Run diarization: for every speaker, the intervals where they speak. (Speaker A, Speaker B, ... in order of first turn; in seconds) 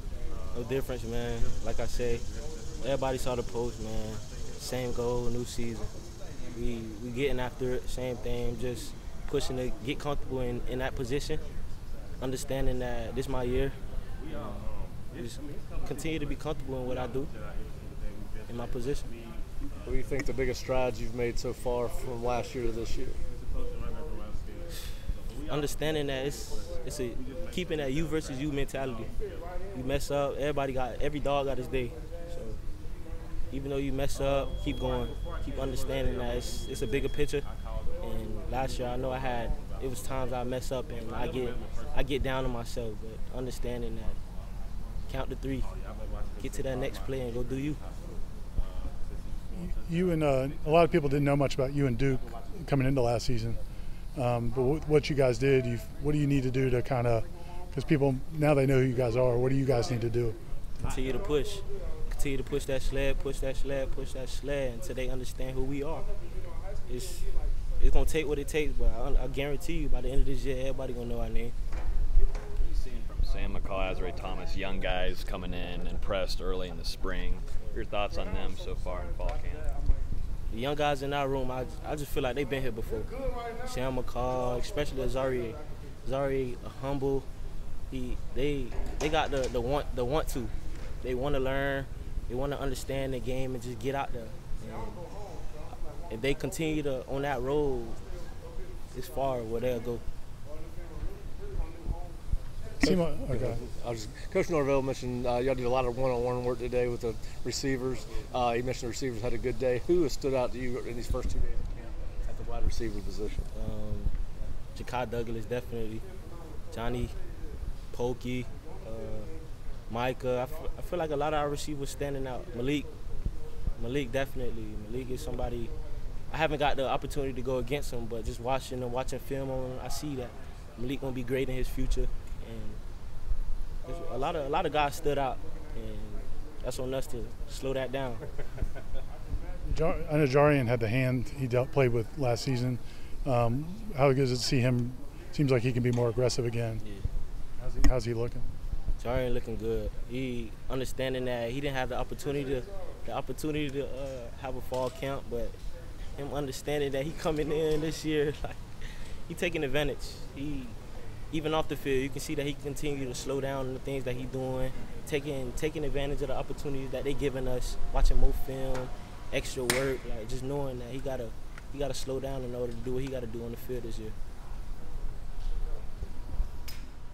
Speaker A: 0.5-2.2, 2.8-5.9, 6.5-11.4, 12.2-13.8, 14.3-17.3, 18.5-19.1, 25.5-29.1, 29.7-32.6, 33.5-37.5, 38.0-44.2, 45.1-45.7, 46.4-47.8, 60.8-66.1, 66.9-67.3, 67.8-71.5, 80.5-83.1, 83.6-87.2, 87.9-95.0, 96.1-98.0, 98.9-100.0, 113.5-114.1, 114.8-116.0, 116.7-117.1, 117.9-119.3, 119.9-122.9, 123.8-125.7, 126.3-132.8, 133.8-138.2, 146.8-147.1, 149.0-155.6, 156.2-160.8, 161.3-174.2
Speaker B: 19.8-23.2, 102.8-113.4
Speaker C: 49.5-53.6, 54.1-60.4, 102.8-103.6, 139.7-146.8, 147.8-148.5
Speaker D: 72.7-79.7